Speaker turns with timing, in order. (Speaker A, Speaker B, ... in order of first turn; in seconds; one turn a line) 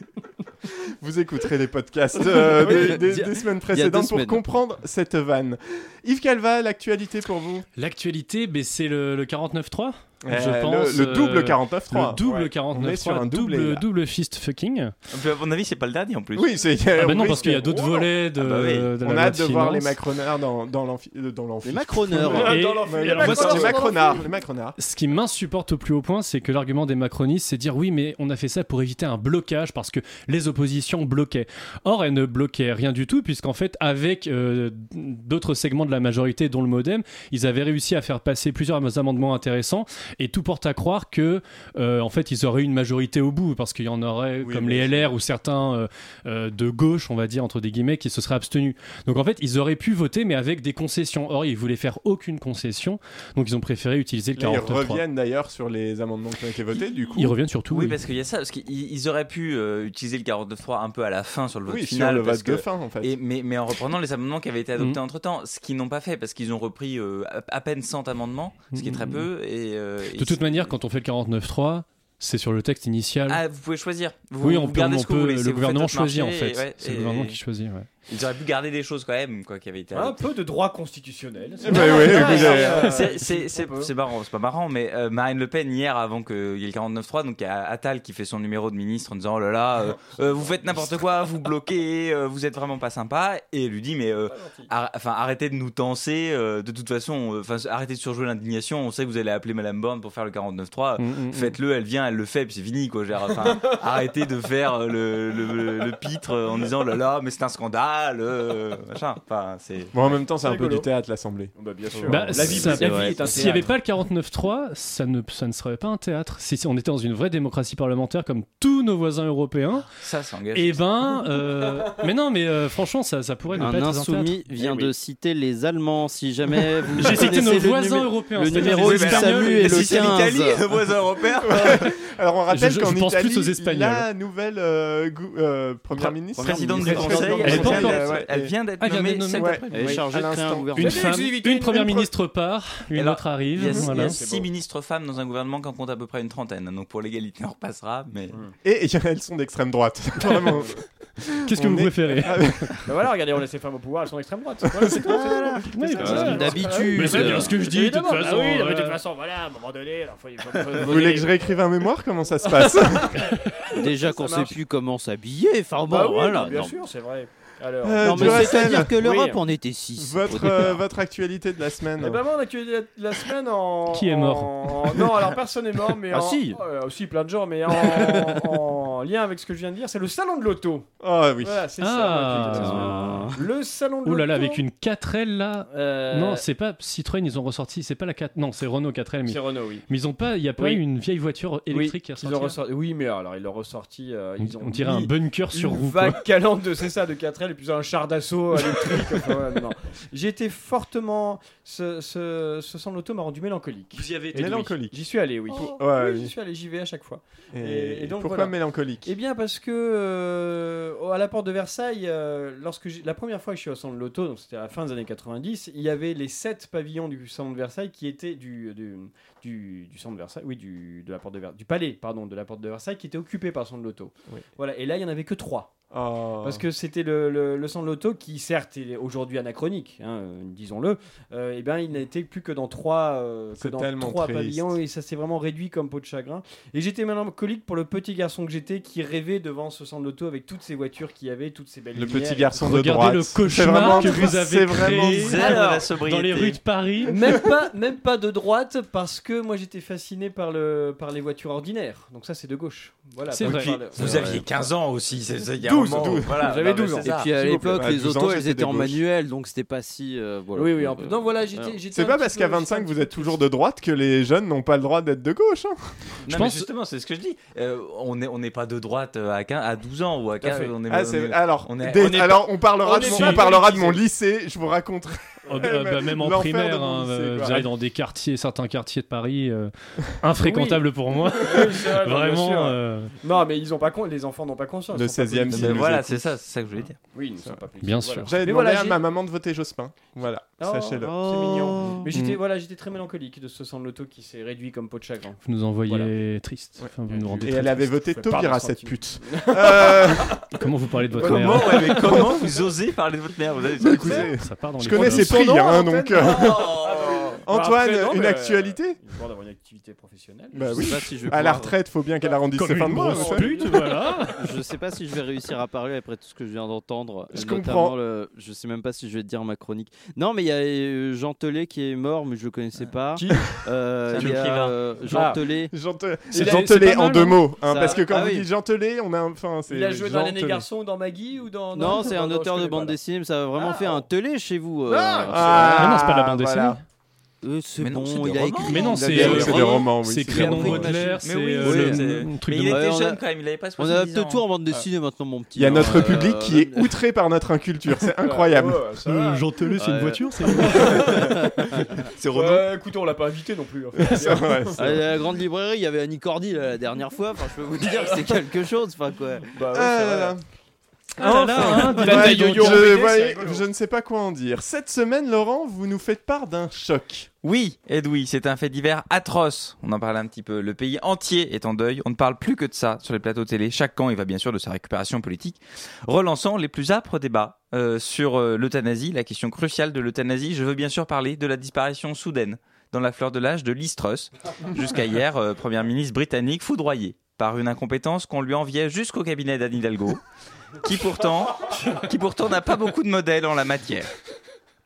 Speaker A: 1.0-7.7
Speaker B: 2.3-4.4
Speaker C: 2.6-3.0
Speaker D: 7.8-14.9
Speaker A: 10.2-13.8
Speaker C: 12.2-12.5
Speaker E: 15.1-16.8
Speaker A: 16.4-18.1
Speaker D: 17.0-19.9
Speaker C: 17.4-18.0
Speaker E: 18.4-18.9
Speaker A: 19.0-24.8
Speaker B: 21.6-22.6
Speaker C: 22.3-24.3
Speaker D: 22.5-24.0
Speaker D: 24.8-55.0
Speaker A: 44.4-45.1
Speaker A: 54.4-57.3
Speaker D: 57.1-58.0
Speaker E: 57.7-70.7
Speaker A: 61.7-63.1
Speaker D: 68.7-69.3
Speaker D: 70.1-73.4
Speaker E: 73.3-77.4
Speaker D: 74.4-77.9
Speaker E: 78.1-80.2
Speaker C: 79.9-83.9
Speaker A: 81.6-83.0
Speaker E: 81.7-109.9
Speaker C: 94.3-94.7
Speaker D: 101.0-101.5
Speaker A: 109.9-112.7
Speaker C: 110.0-110.9
Speaker C: 111.5-113.8
Speaker D: 112.1-119.9
Speaker B: 112.7-113.4
Speaker E: 120.0-120.8
Speaker D: 120.5-124.5
Speaker B: 123.6-130.6
Speaker C: 124.5-124.9
Speaker D: 126.9-130.1
Speaker E: 128.5-131.9
Speaker A: 131.4-138.5
Speaker D: 132.5-134.1
Speaker B: 135.9-137.4
Speaker E: 136.4-140.1
Speaker C: 136.8-138.0
Speaker D: 137.4-138.2
Speaker D: 138.8-139.6
Speaker A: 139.4-141.1
Speaker B: 139.7-141.1
Speaker C: 139.8-140.0
Speaker D: 140.8-144.2
Speaker C: 140.8-142.0
Speaker A: 141.7-142.1
Speaker E: 142.9-148.4
Speaker C: 143.7-144.5
Speaker A: 148.6-152.7
Speaker D: 151.5-152.8
Speaker C: 152.8-161.3
Speaker B: 155.0-157.6
Speaker D: 155.7-159.0
Speaker A: 156.2-156.5
Speaker A: 160.8-163.2
Speaker C: 162.6-164.6
Speaker B: 163.7-166.8
Speaker C: 165.9-169.4
Speaker A: 167.8-169.0
Speaker B: 168.0-170.8
Speaker A: 170.0-172.2
Speaker C: 172.0-180.9
Speaker D: 173.9-174.7
Speaker B: 176.1-176.6
Speaker A: 181.0-181.7
Speaker C: 181.4-184.6
Speaker D: 181.8-183.3
Speaker B: 182.5-183.4
Speaker D: 184.0-192.6
Speaker C: 185.7-186.4
Speaker C: 189.2-189.8
Speaker C: 190.6-190.8
Speaker C: 191.7-225.7
Speaker D: 194.4-196.2
Speaker D: 203.9-204.8
Speaker A: 204.3-204.9
Speaker A: 205.6-206.3
Speaker A: 207.5-209.1
Speaker A: 225.9-226.6
Speaker C: 226.4-242.7
Speaker A: 233.6-234.8
Speaker A: 241.9-245.4
Speaker D: 242.6-247.5
Speaker C: 243.8-244.3
Speaker E: 245.0-246.6
Speaker C: 245.4-245.9
Speaker C: 247.1-254.6
Speaker D: 253.3-253.8
Speaker E: 253.4-257.3
Speaker B: 253.9-254.4
Speaker C: 255.6-257.1
Speaker A: 255.9-256.3
Speaker B: 257.0-261.8
Speaker A: 257.3-259.0
Speaker C: 260.5-263.4
Speaker A: 261.9-265.9
Speaker E: 266.2-272.4
Speaker D: 266.3-266.7
Speaker C: 270.4-270.7
Speaker A: 270.9-277.7
Speaker C: 271.9-274.0
Speaker D: 273.0-273.5
Speaker D: 275.5-283.1
Speaker C: 280.4-285.9
Speaker A: 284.9-286.2
Speaker E: 285.5-287.0
Speaker C: 287.1-289.0
Speaker D: 287.8-288.3
Speaker A: 288.2-291.2
Speaker C: 290.6-296.1
Speaker B: 291.0-292.1
Speaker D: 295.4-297.9
Speaker A: 296.8-300.5
Speaker C: 297.1-300.6
Speaker D: 300.5-302.1
Speaker A: 301.1-302.4
Speaker C: 301.2-302.2
Speaker E: 301.2-304.3
Speaker A: 303.8-306.9
Speaker D: 304.0-305.5
Speaker C: 304.9-310.9
Speaker E: 306.4-307.1
Speaker A: 307.4-309.0
Speaker A: 310.5-313.6
Speaker B: 310.7-311.8
Speaker D: 312.5-314.4
Speaker C: 312.9-314.3
Speaker B: 314.4-325.7
Speaker A: 317.3-318.0
Speaker C: 323.2-323.6
Speaker E: 324.1-324.8
Speaker C: 324.1-324.4
Speaker C: 325.1-325.4
Speaker A: 325.7-330.6
Speaker C: 326.3-327.2
Speaker D: 326.4-327.4
Speaker B: 327.6-328.5
Speaker C: 329.7-333.0
Speaker B: 331.7-335.9
Speaker C: 333.6-334.0
Speaker C: 334.9-336.0
Speaker A: 335.3-336.8
Speaker D: 335.6-336.8
Speaker B: 337.4-339.8
Speaker E: 337.8-339.6
Speaker D: 338.6-342.8
Speaker A: 338.9-340.9
Speaker B: 340.4-343.2
Speaker E: 340.4-344.4
Speaker B: 343.8-346.9
Speaker A: 345.5-348.8
Speaker C: 348.2-349.8
Speaker D: 349.0-351.3
Speaker B: 349.8-351.8
Speaker C: 350.5-355.0
Speaker E: 352.1-352.7
Speaker A: 353.9-355.0
Speaker B: 354.8-359.5
Speaker C: 358.0-358.3
Speaker C: 359.5-360.3
Speaker A: 359.7-360.4
Speaker D: 361.2-363.0
Speaker C: 361.2-363.6
Speaker A: 361.6-367.3
Speaker E: 367.4-390.2
Speaker E: 390.8-394.1